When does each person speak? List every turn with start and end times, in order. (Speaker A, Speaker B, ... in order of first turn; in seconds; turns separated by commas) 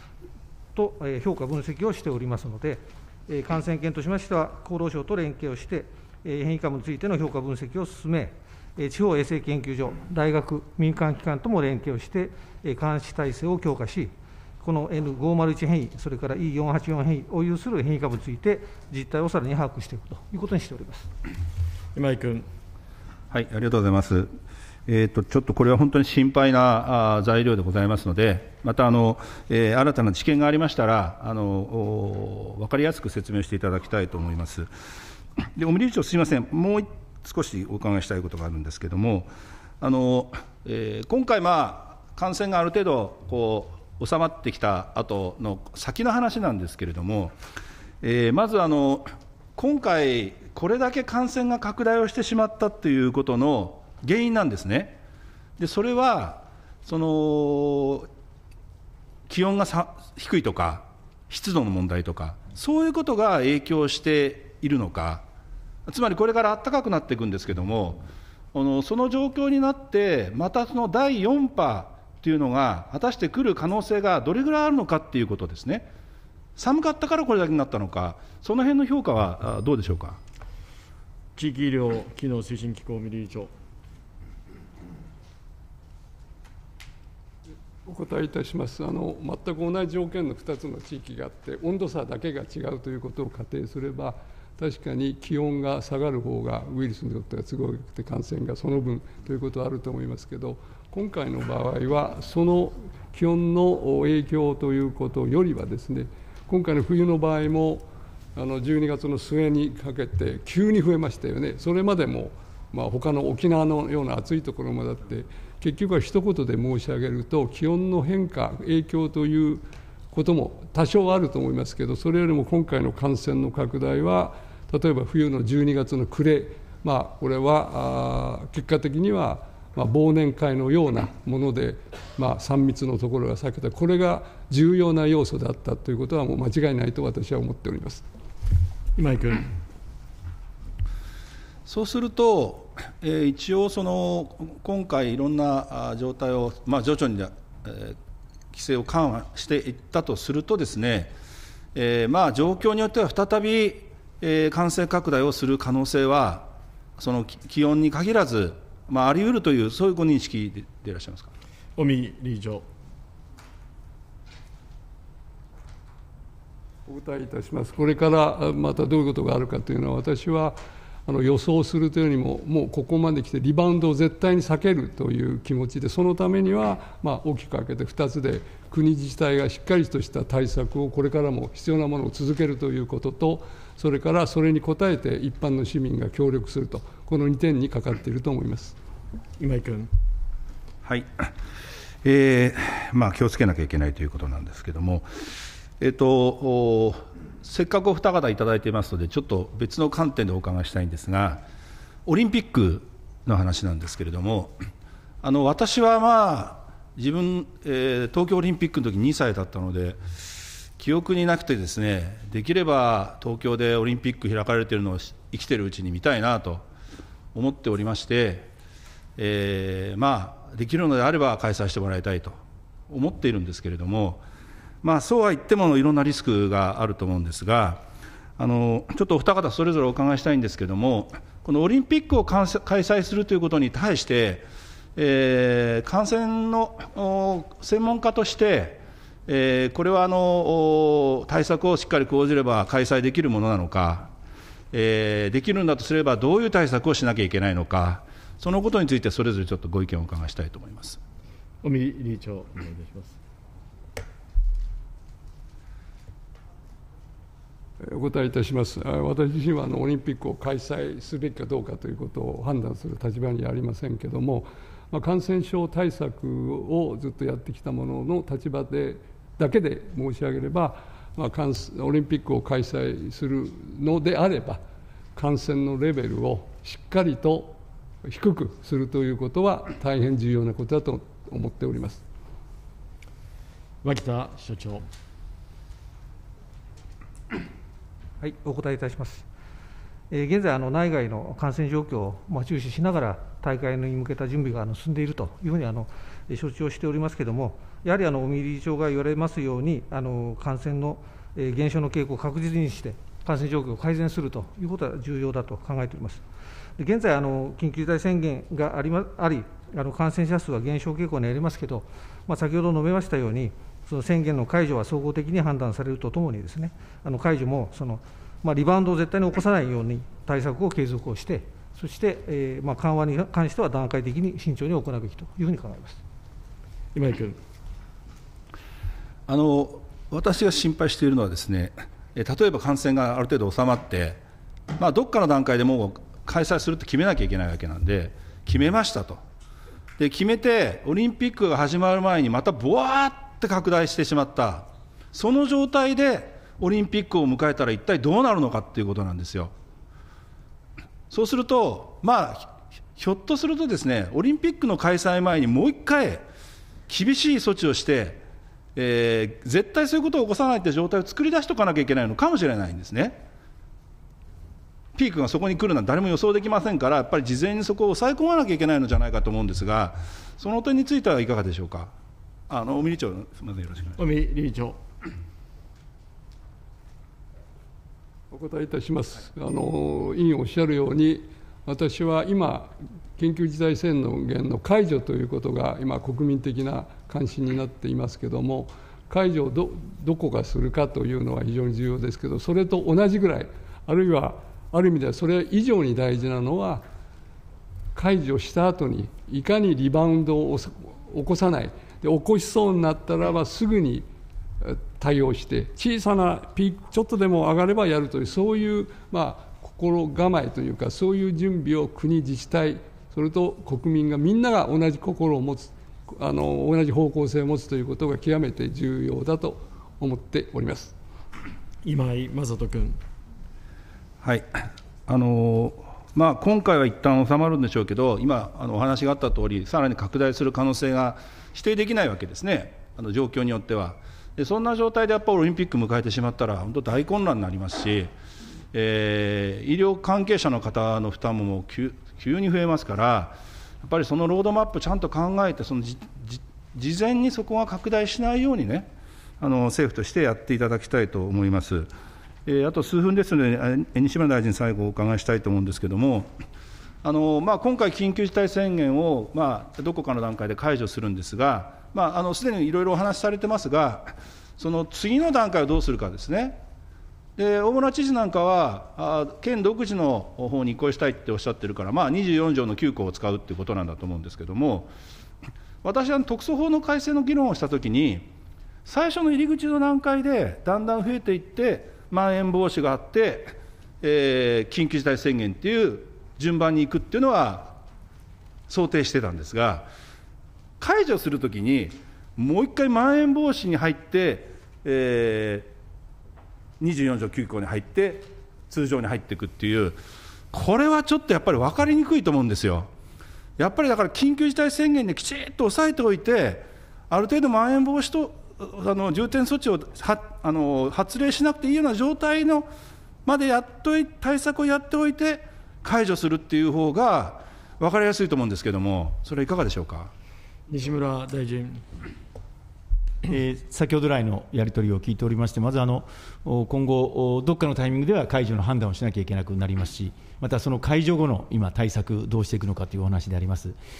Speaker A: 0.7-21.1, Speaker B: 21.9-22.5, Speaker C: 23.3-24.3, Speaker C: 24.9-34.7, Speaker C: 35.5-47.4, Speaker C: 48.0-55.0, Speaker C: 55.6-58.1, Speaker C: 59.3-65.2, Speaker C: 65.8-75.9, Speaker C: 76.5-80.2, Speaker B: 81.3-83.5, Speaker D: 87.8-138.0, Speaker B: 138.9-139.5, Speaker C: 141.7-148.0, Speaker C: 148.5-151.1, Speaker C: 151.7-161.3, Speaker B: 161.8-162.7, Speaker D: 166.8-188.8, Speaker B: 189.4-189.9, Speaker C: 190.8-191.3, Speaker C: 192.0-195.1, Speaker C: 195.8-201.4, Speaker C: 202.1-204.6, Speaker C: 205.2-210.0, Speaker C: 210.8-216.7, Speaker C: 217.3-218.5, Speaker C: 219.2-224.2, Speaker C: 224.8-227.8, Speaker C: 228.4-244.1, Speaker C: 244.7-251.0, Speaker B: 251.6-253.2, Speaker D: 257.8-274.6, Speaker D: 275.1-282.0, Speaker B: 283.8-284.9, Speaker A: 288.2-289.2, Speaker A: 290.1-306.2, Speaker A: 306.8-326.0, Speaker B: 326.9-327.4, Speaker C: 329.3-334.2, Speaker C: 334.8-339.2, Speaker C: 340.0-349.5, Speaker C: 351.1-356.2, Speaker C: 356.9-358.2, Speaker C: 358.8-363.2, Speaker C: 364.9-371.9, Speaker C: 372.5-374.0, Speaker B: 374.0-374.8, Speaker D: 378.3-396.8, Speaker D: 397.9-404.1, Speaker D: 404.6-420.9, Speaker B: 421.8-423.0, Speaker C: 424.2-438.1, Speaker C: 438.7-451.9, Speaker C: 452.4-456.3, Speaker C: 457.0-466.6, Speaker C: 467.4-474.9, Speaker C: 475.8-478.3, Speaker C: 478.8-487.8, Speaker C: 488.7-489.9, Speaker C: 490.8-495.7, Speaker C: 496.8-500.0, Speaker C: 500.5-502.9, Speaker C: 503.6-512.7, Speaker C: 513.2-520.1, Speaker B: 520.7-521.8, Speaker E: 523.3-533.8